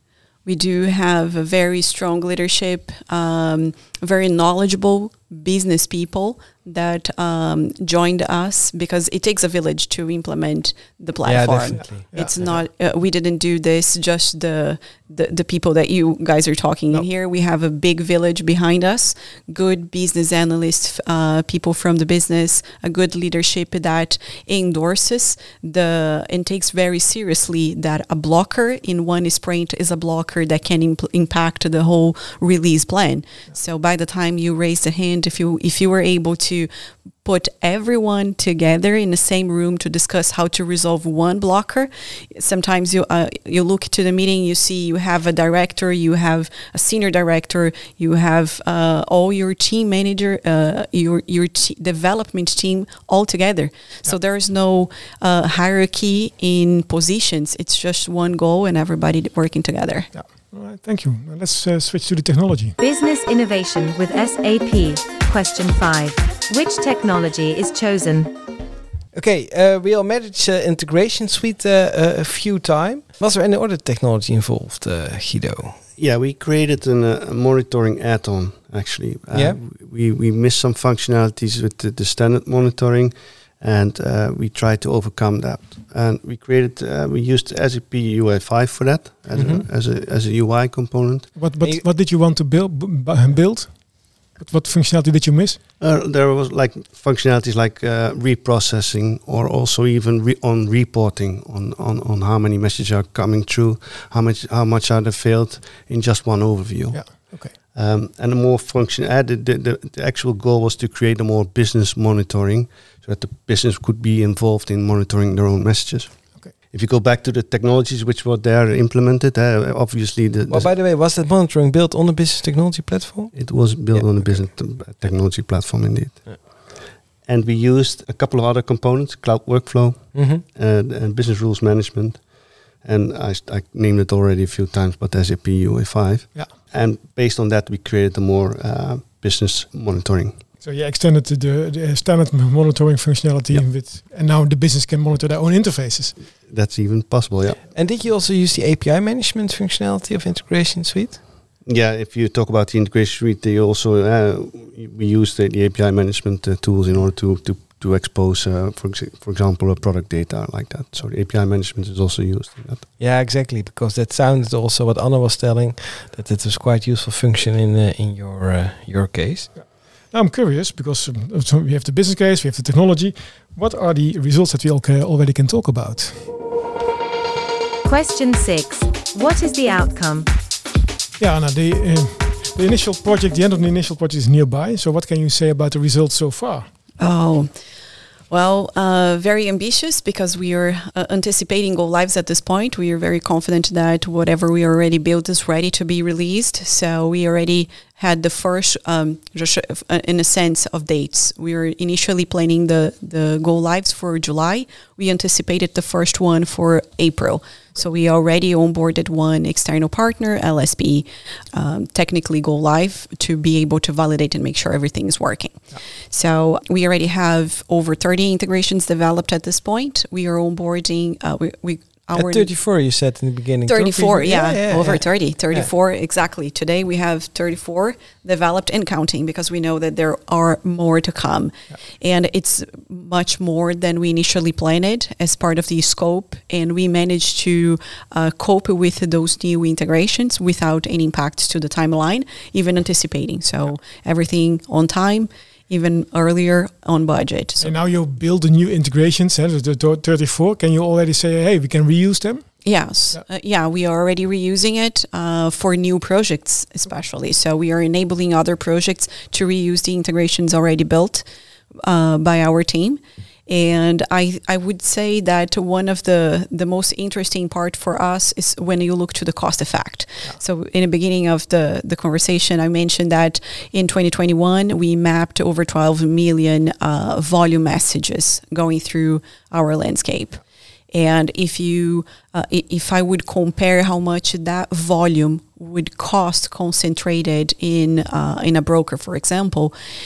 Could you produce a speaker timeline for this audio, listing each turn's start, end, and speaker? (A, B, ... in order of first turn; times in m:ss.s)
0:00.4-0:36.7 A
0:11.2-0:12.5 B
0:37.2-1:00.1 A
1:00.1-1:02.8 C
1:02.8-1:08.3 D
1:09.1-1:15.8 B
1:16.0-1:31.3 E
1:19.3-1:19.6 B
1:29.3-1:29.6 B
1:31.4-1:35.6 C
1:31.6-1:31.9 B
1:35.8-2:00.8 E
1:46.9-1:47.6 C
2:00.5-2:04.5 B
2:03.3-2:20.5 E
2:10.1-2:10.4 B
2:20.6-2:26.2 C
2:26.3-2:27.7 E
2:27.7-2:31.2 B
2:31.6-2:42.9 E
2:43.0-2:49.5 B
2:49.6-2:56.3 C
2:57.8-3:00.3 D
3:01.2-3:06.7 C
3:07.0-3:07.5 A
3:08.3-3:42.5 A
3:42.1-3:45.7 B
3:43.7-4:07.7 A
4:07.6-4:12.5 C
4:12.6-4:21.2 A
4:21.8-4:40.4 A
4:40.9-4:49.8 A